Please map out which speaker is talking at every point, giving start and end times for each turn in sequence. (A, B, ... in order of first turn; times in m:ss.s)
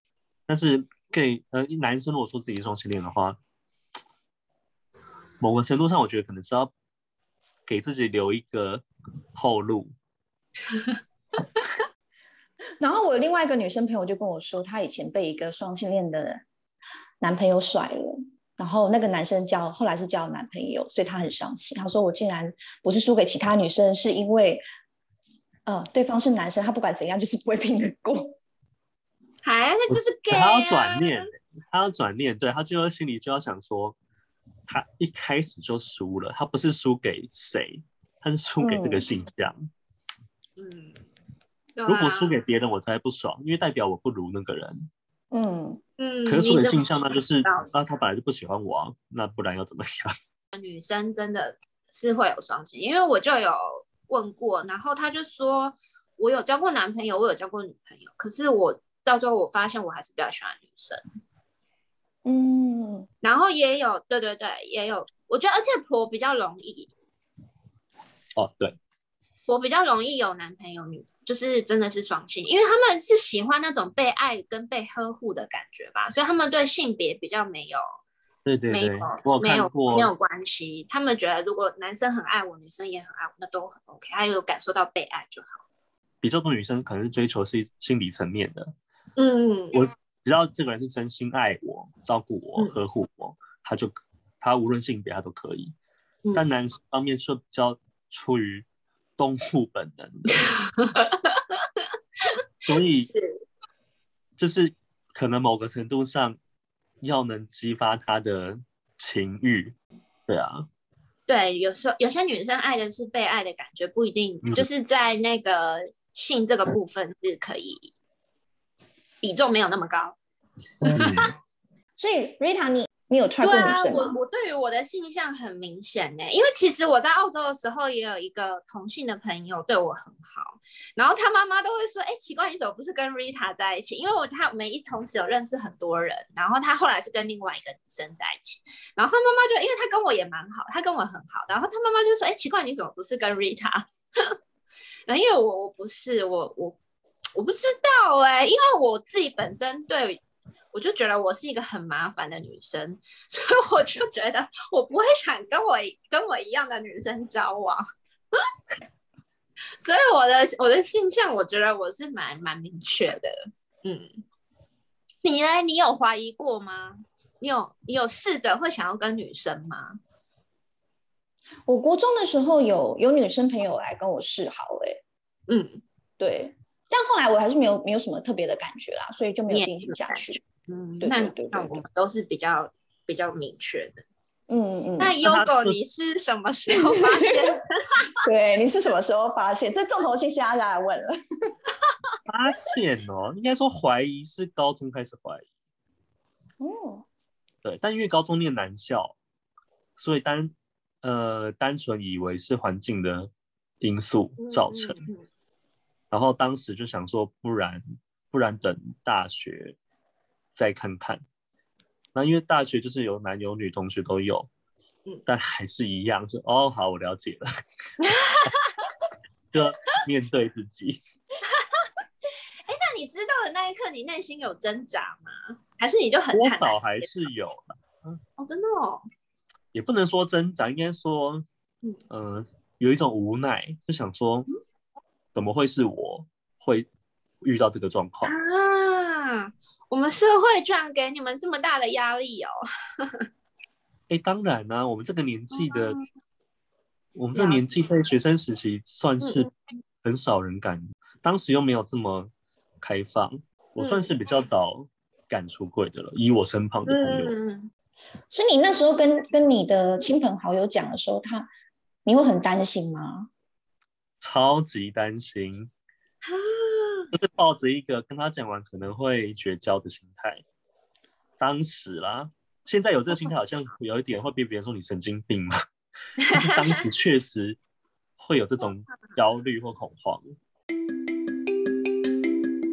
0:00.5-0:03.4 A
0:05.4-0:06.7 A
0:07.7-0:08.8 A
0:09.4-0:09.9 A
0:12.8-0:16.4 B
0:17.2-0:24.6 B
0:25.7-0:28.4 B
0:29.4-0:31.2 C
0:29.9-0:34.0 A
0:34.7-0:39.7 A
0:38.6-0:39.1 B
0:40.6-0:41.0 C
0:41.8-0:42.4 C
0:41.9-0:44.9 A
0:45.3-0:45.8 B
0:46.0-0:47.7 C
0:46.3-0:50.1 A
0:50.5-1:01.0 C
1:02.2-1:03.1 B
1:03.2-1:06.9 C
1:08.4-1:08.8 A
1:09.5-1:17.8 C
1:18.5-1:20.1 A
1:18.7-1:25.6 C
1:26.2-1:28.7 A
1:29.2-1:29.8 C
1:29.7-1:35.8 A
1:36.3-1:38.7 A
1:39.2-1:40.5 A
1:40.5-1:41.4 C
1:42.2-1:43.4 C
1:42.7-1:43.1 A
1:44.4-1:46.4 A
1:47.0-1:50.7 A
1:51.3-1:57.9 C
1:59.2-2:00.2 C
2:00.8-2:01.3 A
2:00.8-2:01.3 C
2:02.0-2:04.2 B
2:03.4-2:24.4 C
2:25.1-2:26.8 C
2:27.4-2:30.2 C
2:30.7-2:37.8 C
2:39.8-2:44.2 C
2:45.2-2:50.0 C
2:51.7-2:55.0 B
2:55.5-2:55.8 C
2:56.2-3:00.4 B
2:59.5-3:04.0 C
3:01.0-3:01.8 B
3:04.5-3:05.2 B
3:05.0-3:08.0 C
3:05.2-3:05.8 A
3:06.9-3:07.2 B
3:08.2-3:11.1 B
3:12.3-3:15.5 A
3:16.6-3:17.1 B
3:17.6-3:19.2 A
3:20.0-3:25.1 A
3:24.4-3:25.2 C
3:26.1-3:29.8 A
3:30.6-3:31.2 A
3:32.2-3:34.5 A
3:35.3-3:37.5 A
3:38.0-3:39.0 C
3:39.5-3:41.0 A
3:41.4-3:41.9 C
3:42.7-3:47.1 C
3:46.3-3:48.2 A
3:48.4-3:49.1 C
3:49.7-3:51.4 A
3:52.1-3:54.5 A
3:55.3-3:56.9 A
3:57.4-3:58.3 A
3:58.2-4:03.2 C
4:04.1-4:06.0 A
4:05.5-4:06.0 C
4:07.2-4:09.5 A
4:07.3-4:07.8 C
4:09.2-4:09.5 C
4:10.0-4:17.4 A
4:13.8-4:14.1 C
4:16.9-4:17.7 C
4:18.3-4:21.5 B
4:22.0-4:23.3 B
4:24.2-4:25.7 A
4:26.2-4:27.1 C
4:27.1-4:30.4 A
4:31.4-4:35.6 A
4:36.2-4:36.8 C
4:36.3-4:37.6 A
4:38.2-4:40.3 A